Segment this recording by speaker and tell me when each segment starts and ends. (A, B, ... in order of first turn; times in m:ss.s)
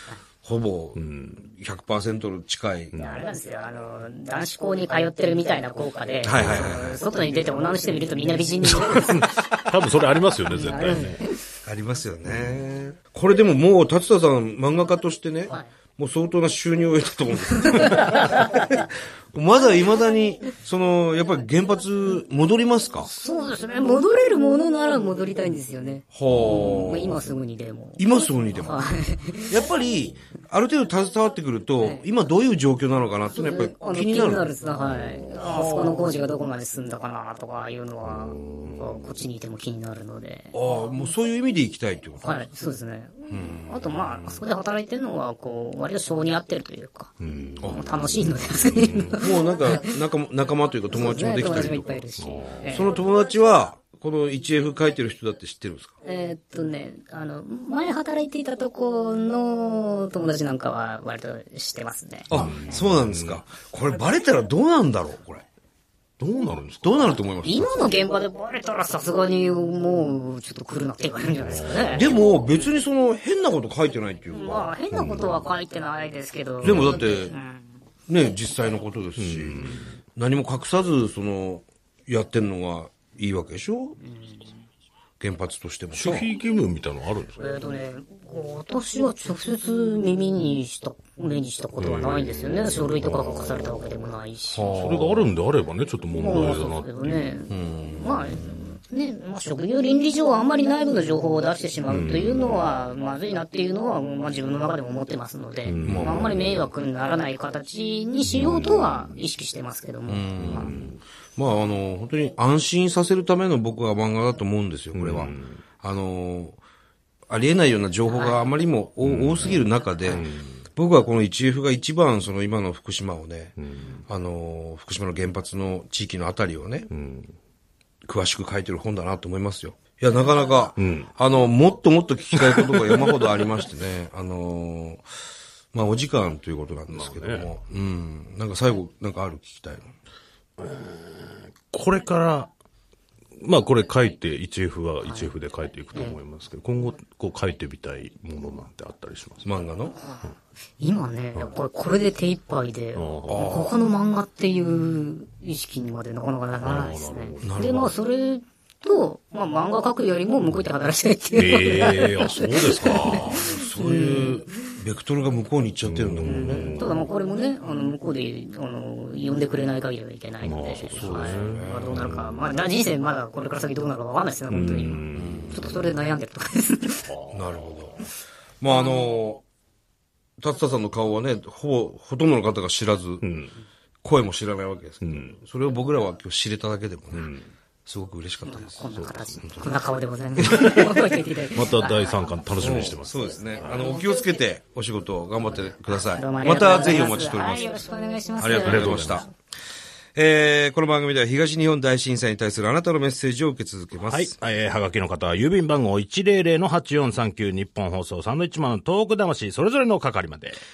0:00.4-0:03.0 A
0:01.0-0:01.4 B
0:02.9-0:03.2 B
0:03.0-0:09.6 C
0:06.2-0:07.0 A
0:06.4-0:06.8 B
0:08.6-0:11.2 B
0:10.5-0:11.4 C
0:11.6-0:23.1 A
0:12.2-0:12.6 B
0:17.6-0:18.8 C
0:23.0-0:29.7 C
0:26.1-0:27.2 A
0:28.0-0:28.8 A
0:29.5-0:34.5 A
0:31.8-0:32.0 C
0:33.3-0:40.6 C
0:35.4-0:36.1 A
0:38.0-0:38.9 B
0:40.5-0:42.4 A
0:42.2-0:47.1 C
0:43.3-0:44.4 A
0:47.2-0:47.9 B
0:47.6-0:47.9 A
0:47.7-0:50.0 C
0:48.6-0:49.2 B
0:49.1-0:52.1 A
0:50.9-0:53.0 C
0:52.2-0:52.7 B
0:52.7-0:55.9 A
0:56.0-1:02.8 C
1:02.3-1:05.5 A
1:02.3-1:03.4 B
1:06.2-1:07.2 B
1:06.8-1:08.0 A
1:07.4-1:12.2 C
1:11.4-1:12.1 B
1:11.9-1:14.8 A
1:14.3-1:17.7 C
1:14.9-1:15.4 B
1:16.6-1:17.0 B
1:16.6-1:17.4 A
1:18.1-1:24.0 A
1:19.2-1:19.9 B
1:24.1-1:24.5 C
1:25.2-1:26.3 A
1:25.9-1:27.5 B
1:27.4-1:34.8 C
1:31.8-1:33.7 B
1:34.5-1:35.3 A
1:34.7-1:37.2 B
1:36.1-1:50.7 C
1:37.5-1:38.1 A
1:41.9-1:42.6 B
1:45.6-1:46.6 B
1:45.8-1:46.4 A
1:48.3-1:49.1 B
1:50.1-1:56.6 A
1:50.4-1:51.0 B
1:54.9-1:55.6 B
1:57.3-2:03.6 A
1:58.1-1:58.5 C
1:59.0-2:00.6 B
2:03.6-2:04.0 B
2:04.1-2:06.9 A
2:06.9-2:07.3 B
2:08.1-2:15.0 A
2:10.8-2:11.1 B
2:12.4-2:13.3 B
2:15.7-2:19.9 A
2:16.9-2:17.5 B
2:20.6-2:22.5 B
2:23.4-2:29.5 B
2:25.0-2:25.3 C
2:29.4-2:30.0 A
2:30.0-2:30.3 C
2:30.8-2:44.7 C
2:33.0-2:33.6 B
2:33.3-2:33.7 A
2:36.6-2:37.6 B
2:37.4-2:37.9 A
2:41.4-2:44.1 B
2:43.1-2:46.8 A
2:45.8-2:47.0 B
2:46.2-2:57.1 C
2:50.4-2:52.4 B
2:51.0-2:52.0 A
2:54.5-2:55.7 B
2:55.1-2:55.6 A
2:57.1-2:57.6 B
2:57.3-2:58.0 A
2:58.6-2:59.4 A
2:58.7-2:59.0 C
3:00.4-3:03.2 A
3:03.2-3:03.6 B
3:04.0-3:07.3 A
3:05.0-3:05.4 B
3:07.1-3:07.5 B
3:07.9-3:08.9 A
3:08.4-3:12.2 C
3:08.9-3:09.4 B
3:10.4-3:10.8 A
3:11.4-3:13.9 B
3:12.6-3:17.8 A
3:13.7-3:14.0 C
3:15.9-3:19.1 C
3:18.4-3:19.3 A
3:18.5-3:19.2 B
3:20.1-3:24.4 A
3:24.0-3:30.6 B